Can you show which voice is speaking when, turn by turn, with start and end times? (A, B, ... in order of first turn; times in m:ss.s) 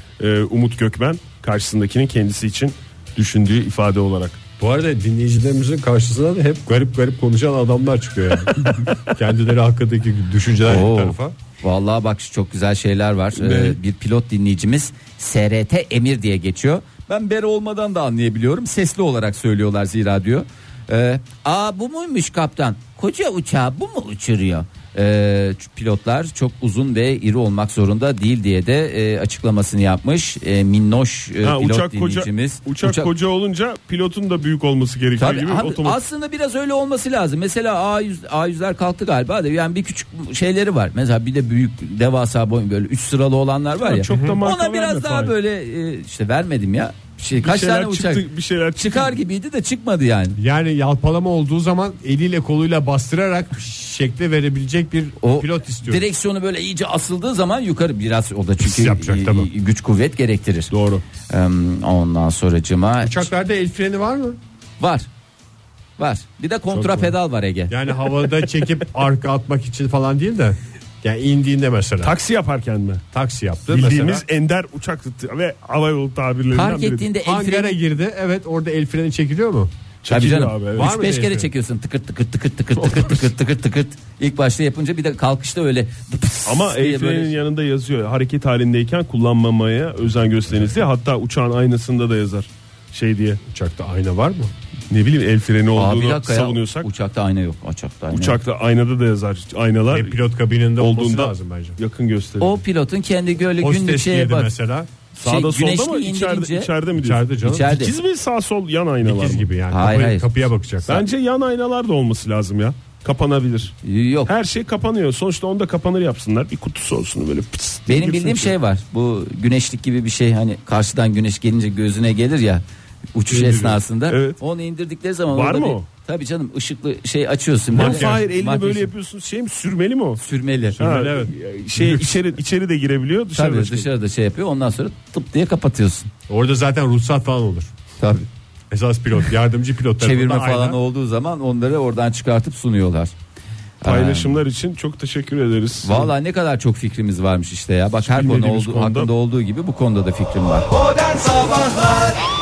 0:00.2-0:04.4 A
0:04.6-0:11.4 B
0:10.7-0:33.1 C
0:31.4-0:36.0 A
0:35.2-0:48.2 C
0:43.8-0:45.3 A
0:44.1-0:44.4 B
0:47.4-0:49.2 A
0:48.8-0:50.4 C
0:50.4-0:56.0 B
0:55.2-1:00.7 C
0:58.6-0:59.5 B
1:00.7-1:01.0 A
1:01.3-1:03.3 C
1:03.0-1:04.4 B
1:04.8-1:05.1 C
1:06.0-1:07.8 C
1:06.7-1:07.2 B
1:07.7-1:12.2 B
1:12.0-1:13.0 A
1:13.1-1:14.2 B
1:13.7-1:17.1 A
1:16.5-1:17.8 C
1:17.2-1:19.7 B
1:20.0-1:20.9 A
1:20.1-1:27.4 C
1:20.7-1:21.5 B
1:26.5-1:33.4 A
1:33.5-1:34.5 B
1:34.9-1:36.9 A
1:35.8-1:38.4 C
1:38.1-1:40.1 A
1:39.9-1:41.8 B
1:40.8-1:42.6 A
1:42.4-1:44.5 C
1:43.6-1:44.9 B
1:45.2-1:49.5 A
1:45.2-1:46.7 C
1:47.0-1:47.8 B
1:47.4-1:47.9 C
1:49.0-1:51.1 B
1:49.7-1:50.3 C
1:50.9-1:53.8 A
1:53.8-1:54.3 C
1:54.3-1:58.5 A
1:57.9-2:02.6 C
2:03.2-2:08.9 C
2:03.4-2:03.8 B
2:04.1-2:04.4 A
2:05.3-2:05.9 A
2:07.7-2:08.2 B
2:07.8-2:10.2 A
2:10.2-2:10.8 C
2:10.8-2:12.2 B
2:10.8-2:13.9 A
2:13.4-2:16.1 C
2:16.3-2:17.7 B
2:18.0-2:18.3 C
2:18.7-2:20.8 B
2:20.0-2:23.2 C
2:23.8-2:24.4 C
2:23.8-2:26.1 A
2:25.8-2:32.2 C
2:28.0-2:29.1 A